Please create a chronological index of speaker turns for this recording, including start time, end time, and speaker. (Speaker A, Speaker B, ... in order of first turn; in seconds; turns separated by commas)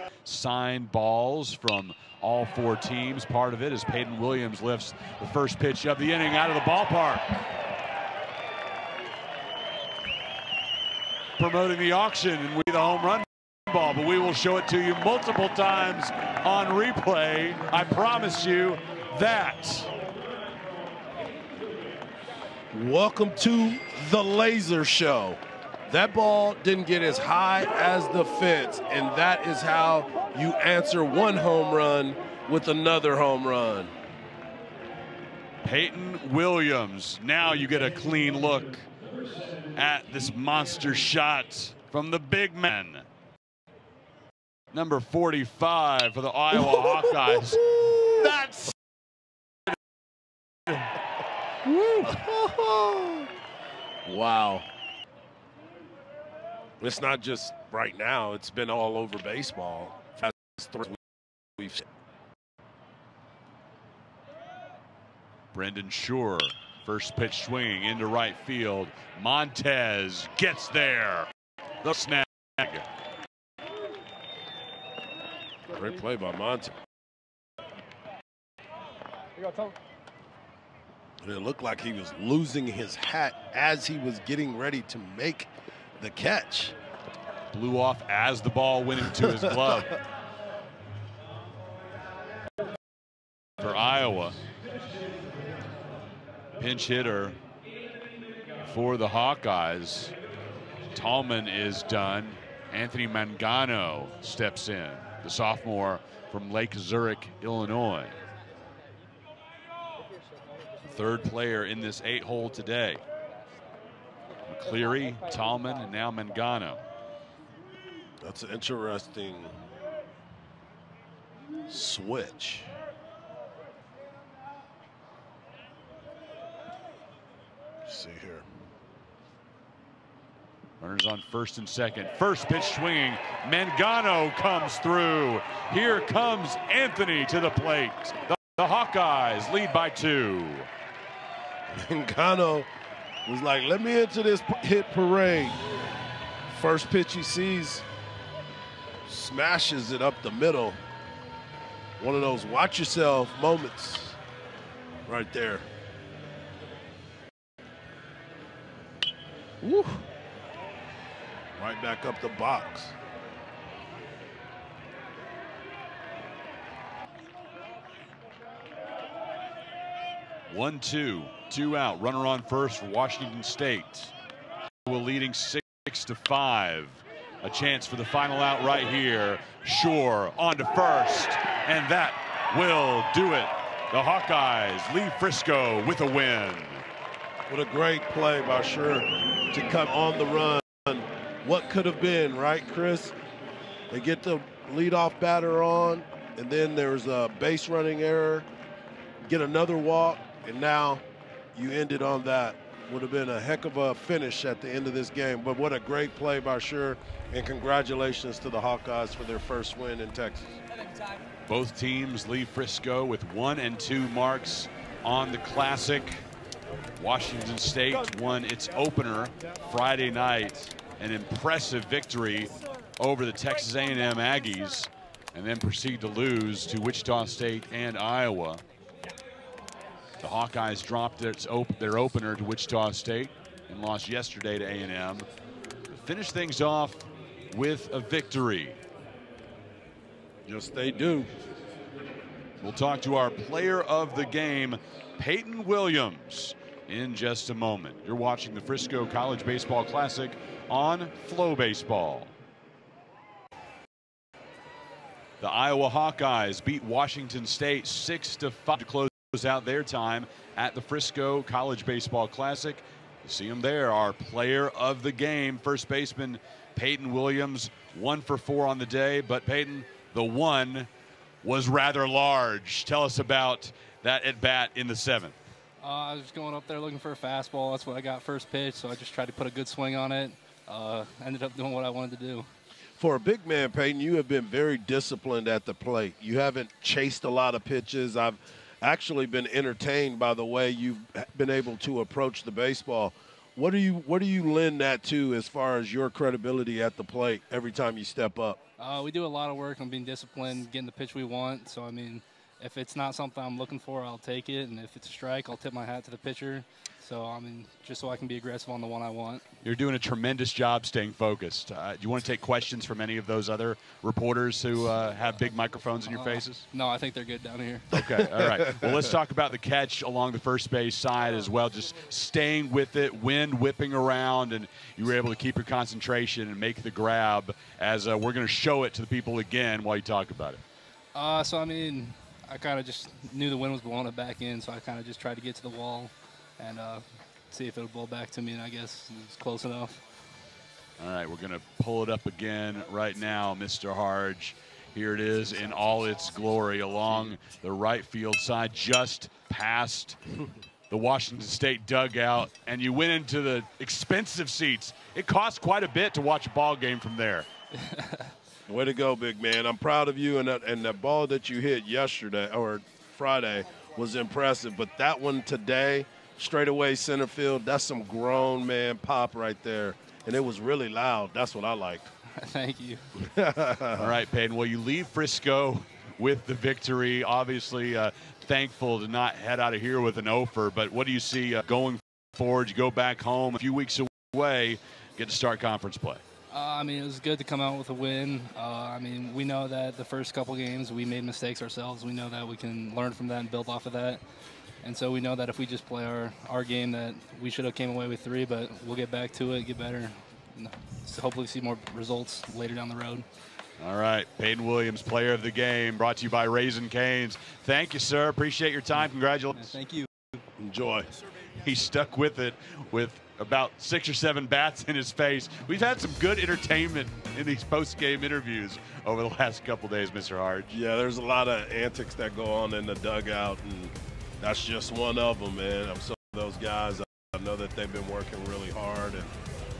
Speaker A: 0.2-7.3, Speaker A: 11.4-19.9, Speaker B: 22.7-33.9, Speaker A: 35.6-38.9, Speaker A: 39.7-43.0, Speaker A: 44.7-48.7, Speaker B: 46.5-48.3, Speaker B: 51.6-53.3, Speaker B: 54.0-54.7, Speaker B: 56.8-61.0, Speaker B: 61.6-61.8, Speaker A: 65.5-71.3, Speaker A: 71.8-72.8, Speaker B: 75.7-76.7, Speaker B: 81.2-86.7, Speaker A: 87.5-90.0, Speaker B: 89.3-89.6, Speaker A: 93.6-94.4, Speaker A: 96.6-97.4, Speaker A: 98.6-100.1, Speaker A: 100.9-108.1, Speaker A: 110.8-113.0, Speaker A: 114.5-116.8, Speaker B: 118.2-119.6, Speaker B: 121.7-122.7, Speaker B: 127.8-128.4, Speaker A: 130.8-140.7, Speaker B: 141.7-142.7, Speaker B: 143.2-145.6, Speaker B: 146.5-147.8, Speaker B: 149.1-150.8, Speaker B: 152.0-154.2, Speaker B: 155.1-155.7, Speaker B: 159.6-160.1, Speaker B: 161.6-162.9, Speaker A: 170.5-174.1, Speaker A: 174.8-186.8, Speaker B: 187.5-193.2, Speaker B: 193.9-198.5, Speaker B: 199.2-201.0, Speaker B: 201.5-210.6, Speaker A: 211.5-216.2, Speaker A: 216.9-228.6, Speaker A: 230.2-235.2, Speaker A: 235.9-238.8, Speaker B: 240.4-241.3, Speaker A: 242.6-252.3, Speaker A: 255.4-270.9, Speaker A: 271.4-275.4, Speaker C: 275.8-282.5, Speaker B: 283.0-298.6, Speaker C: 298.8-309.4, Speaker A: 309.6-316.6, Speaker C: 316.1-318.0, Speaker A: 317.9-330.6, Speaker B: 318.2-319.0, Speaker C: 331.1-340.0, Speaker A: 341.0-350.2, Speaker A: 350.9-357.5, Speaker B: 358.7-372.1, Speaker C: 372.4-373.0, Speaker B: 373.1-374.1, Speaker A: 374.0-386.2, Speaker C: 386.5-394.2, Speaker C: 394.8-403.2, Speaker A: 403.8-409.8, Speaker C: 409.7-410.1, Speaker B: 410.6-411.1, Speaker A: 411.6-420.8, Speaker B: 420.7-429.3